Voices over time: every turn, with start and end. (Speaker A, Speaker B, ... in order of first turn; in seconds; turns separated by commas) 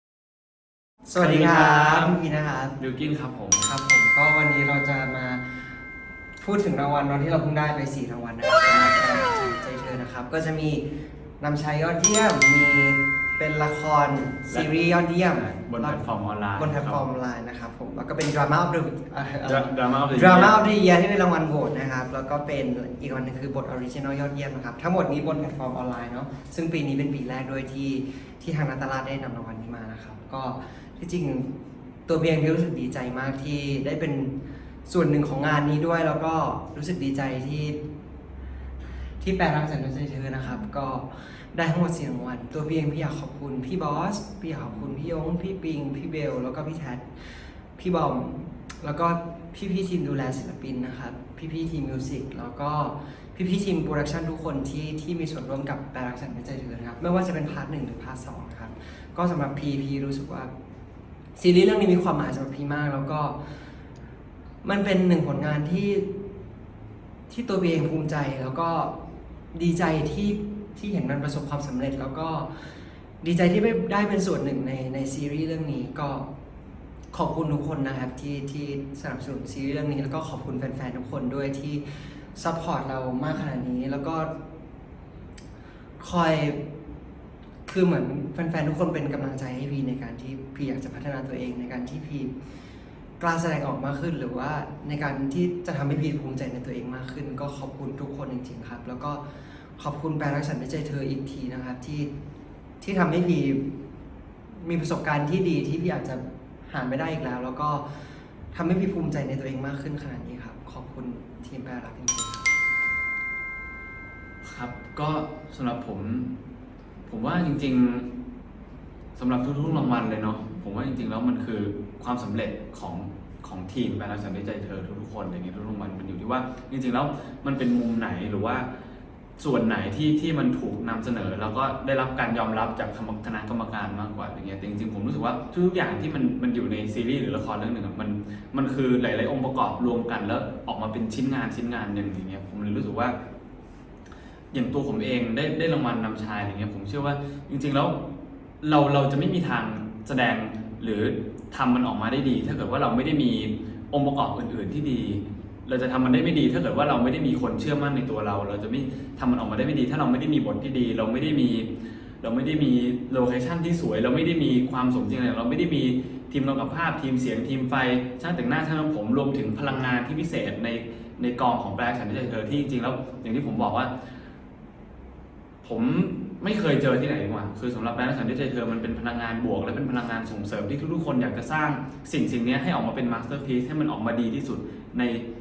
Speaker A: 1.1-2.8, Speaker B: 1.2-2.1, Speaker B: 2.8-3.7, Speaker A: 3.6-5.7, Speaker A: 6.4-10.9, Speaker A: 11.4-16.0, Speaker B: 15.3-17.0, Speaker A: 16.5-31.5, Speaker B: 19.4-20.6, Speaker A: 32.1-34.3, Speaker A: 34.9-37.8, Speaker A: 39.2-60.5, Speaker A: 61.4-63.4, Speaker A: 64.6-66.1, Speaker A: 67.3-68.9, Speaker A: 69.5-72.5, Speaker A: 73.2-76.2, Speaker A: 77.1-84.3, Speaker A: 86.0-86.6, Speaker A: 87.7-92.3, Speaker A: 93.2-99.2, Speaker A: 99.8-102.1, Speaker A: 102.8-103.7, Speaker A: 104.5-107.9, Speaker A: 108.5-112.5, Speaker B: 114.4-116.3, Speaker B: 117.1-118.1, Speaker B: 119.2-128.7, Speaker B: 129.4-143.1, Speaker B: 144.5-147.9, Speaker B: 148.6-161.7, Speaker B: 162.2-173.9, Speaker B: 175.6-185.2